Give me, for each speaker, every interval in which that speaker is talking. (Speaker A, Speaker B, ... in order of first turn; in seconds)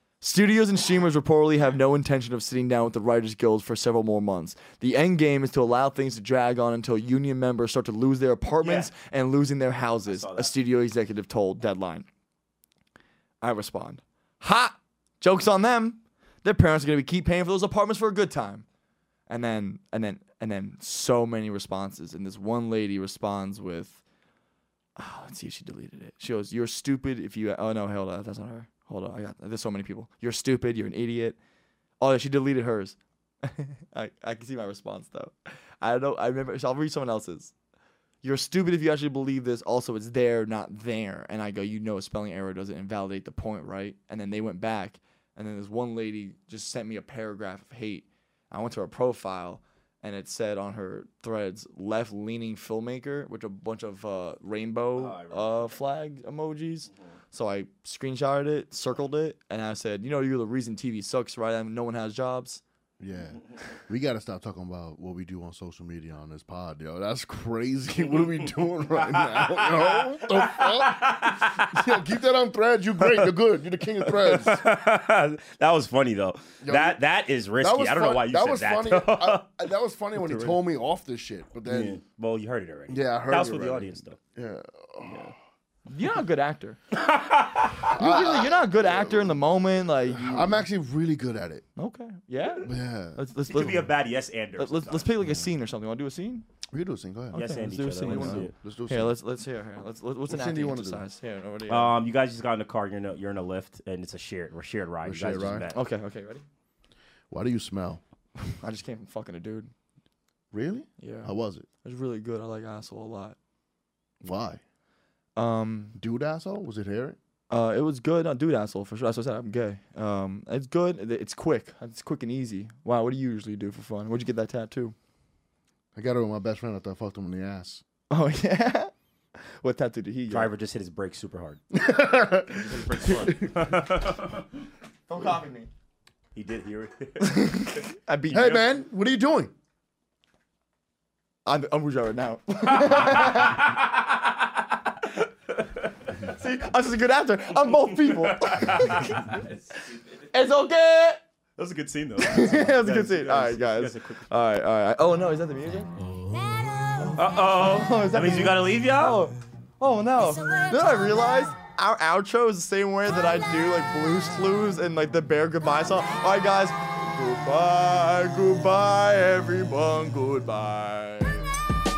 Speaker A: 0.2-12.1, 13.4-18.6, 19.3-24.0, 25.0-31.4, 32.0-37.5, 38.2-62.6, 80.2-80.5, 85.9-86.8, 87.9-90.6, 91.8-93.9, 94.6-96.4, 97.3-102.0, 105.7-106.4, 108.5-109.7, 111.0-113.3, 115.3-116.0, 117.5-124.9, 128.1-130.5, 135.1-135.7, 137.2-138.6, 141.4-143.7, 146.2-149.4, 150.3-151.2, 152.2-155.9, 157.0-171.4
Speaker B: 8.6-8.9, 10.1-10.5, 55.0-55.7, 68.1-68.5, 69.0-72.0, 74.1-79.4, 81.7-84.2, 85.0-85.3, 86.9-87.9, 93.5-95.1, 97.3-98.5, 101.7-105.8, 130.3-131.6, 132.5-134.4, 136.3-138.6, 142.7-144.3, 145.6-145.9, 147.7-150.2, 151.6-154.3, 157.2-159.3
Speaker C: 63.0-74.6, 76.6-77.0, 77.6-82.0, 82.9-85.3, 87.9-89.4, 90.1-91.7, 92.6-93.2, 96.7-99.2, 100.3-101.0, 105.0-105.7, 107.3-108.0, 110.5-111.7, 114.2-114.6, 116.0-117.2, 125.9-127.8, 131.7-133.8, 138.3-139.5